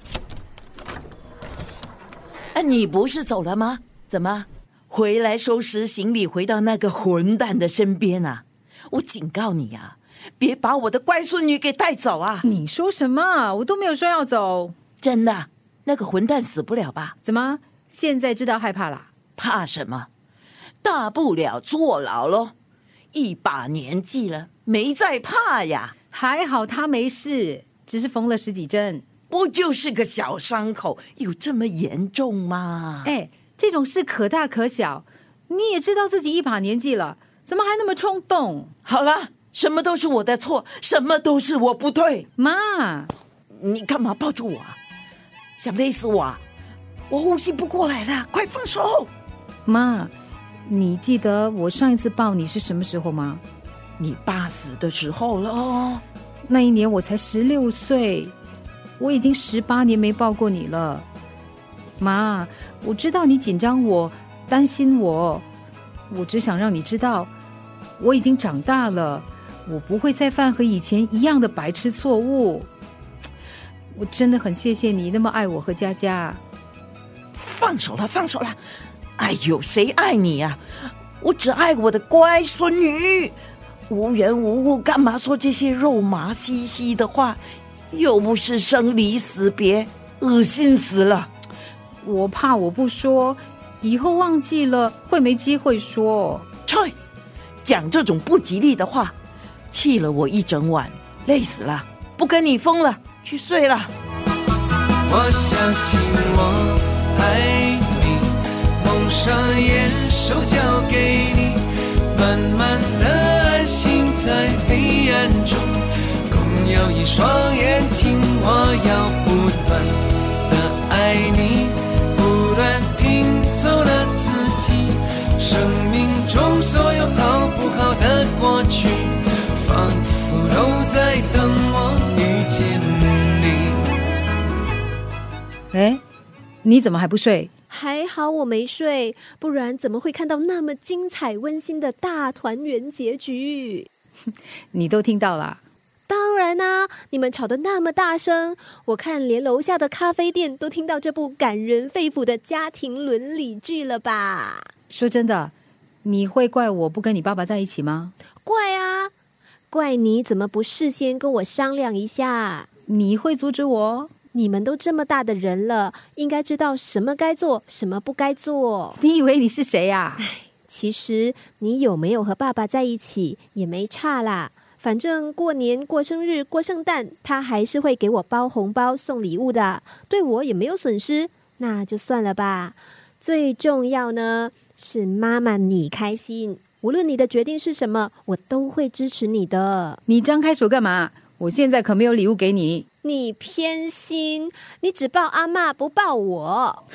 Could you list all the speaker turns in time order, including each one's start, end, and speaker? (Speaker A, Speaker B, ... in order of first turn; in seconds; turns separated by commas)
Speaker A: 2.5-12.4, Speaker B: 12.4-14.7, Speaker A: 15.0-17.1, Speaker B: 17.2-19.1, Speaker A: 19.4-20.1, Speaker A: 20.8-22.5, Speaker A: 23.1-25.9, Speaker B: 26.1-29.0, Speaker A: 29.3-33.1, Speaker B: 33.0-38.7, Speaker A: 38.8-42.3, Speaker B: 42.4-43.1, Speaker A: 43.5-44.8, Speaker A: 45.6-46.4, Speaker A: 47.1-49.1, Speaker B: 49.6-50.1, Speaker B: 50.7-53.4, Speaker A: 54.0-56.0, Speaker B: 56.5-58.3, Speaker B: 59.0-61.1, Speaker B: 62.0-65.4, Speaker B: 66.1-67.3, Speaker B: 68.0-72.7, Speaker B: 73.9-76.4, Speaker A: 77.3-78.6, Speaker A: 79.2-80.6, Speaker A: 81.2-83.3, Speaker A: 83.9-87.4, Speaker A: 87.9-91.3, Speaker B: 92.0-96.5, Speaker A: 96.7-96.9, Speaker A: 97.6-99.1, Speaker A: 99.7-103.9, Speaker C: 105.0-133.8, Speaker B: 135.7-136.0, Speaker B: 136.6-137.5, Speaker D: 137.7-143.9, Speaker B: 144.7-145.6, Speaker D: 146.1-154.7, Speaker B: 154.9-155.5, Speaker B: 156.0-158.1, Speaker D: 158.4-159.1, Speaker D: 159.7-162.7, Speaker B: 162.9-164.1, Speaker D: 164.3-169.0, Speaker B: 169.0-170.2, Speaker D: 170.2-190.0, Speaker B: 190.1-192.8, Speaker D: 193.0-196.8